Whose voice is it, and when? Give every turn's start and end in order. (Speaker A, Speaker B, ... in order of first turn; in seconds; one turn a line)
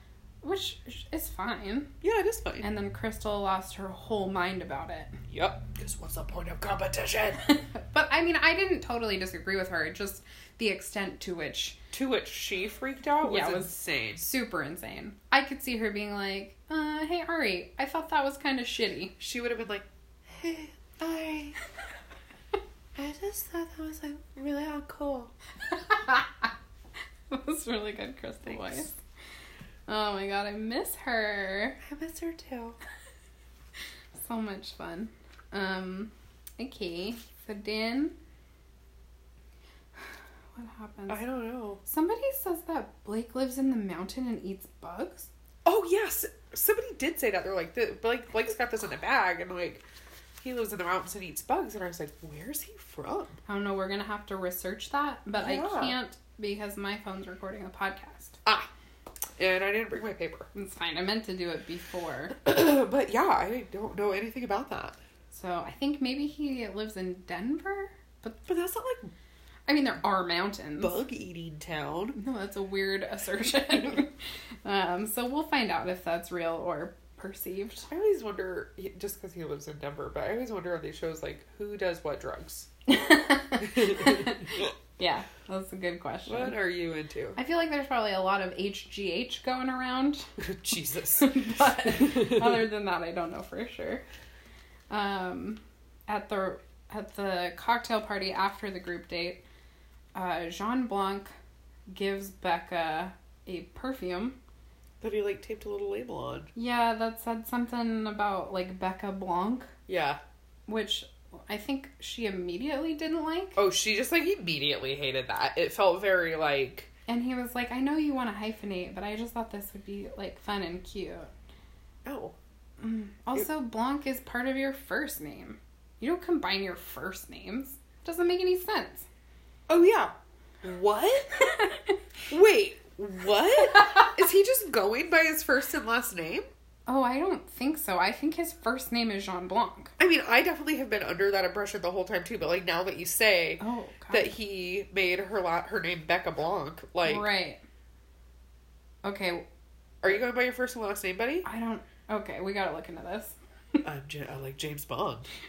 Speaker A: 0.4-1.9
Speaker B: 2.0-2.6
Speaker A: 2.6-5.2
Speaker B: 5.3-7.5
Speaker A: 7.5-11.8
Speaker B: 11.9-14.3
Speaker A: 13.2-19.1
Speaker B: 19.2-21.6
Speaker B: 22.9-25.3
Speaker A: 25.7-26.5
Speaker A: 27.3-28.9
Speaker B: 28.5-28.8
Speaker A: 29.9-31.8
Speaker B: 31.8-32.8
Speaker A: 34.1-38.1
Speaker A: 40.5-41.2
Speaker B: 41.1-41.8
Speaker A: 41.8-45.3
Speaker B: 45.6-49.8
Speaker B: 50.4-53.4
Speaker A: 53.5-58.4
Speaker B: 55.4-56.0
Speaker B: 59.4-60.5
Speaker A: 60.5-62.4
Speaker B: 62.4-65.0
Speaker A: 65.3-68.4
Speaker B: 68.5-69.1
Speaker A: 69.7-71.0
Speaker B: 70.8-72.2
Speaker A: 72.1-74.1
Speaker A: 74.6-77.9
Speaker B: 77.9-82.7
Speaker A: 82.9-86.6
Speaker B: 83.6-84.7
Speaker B: 86.2-87.4
Speaker A: 87.3-90.3
Speaker B: 90.4-91.3
Speaker A: 91.2-94.0
Speaker B: 91.9-92.5
Speaker A: 94.9-99.4
Speaker A: 100.1-101.3
Speaker A: 101.9-104.4
Speaker B: 105.0-106.5
Speaker A: 106.5-109.7
Speaker B: 109.9-110.2
Speaker A: 110.7-113.6
Speaker B: 113.5-116.9
Speaker A: 117.1-121.3
Speaker B: 122.0-122.3
Speaker A: 122.8-129.1
Speaker B: 129.7-131.4
Speaker A: 131.4-131.9
Speaker B: 132.3-136.4
Speaker A: 136.9-139.9
Speaker B: 140.0-147.2
Speaker A: 143.6-144.3
Speaker A: 147.0-147.6
Speaker A: 149.0-149.4
Speaker B: 150.0-151.4
Speaker A: 151.4-153.8
Speaker B: 153.8-155.3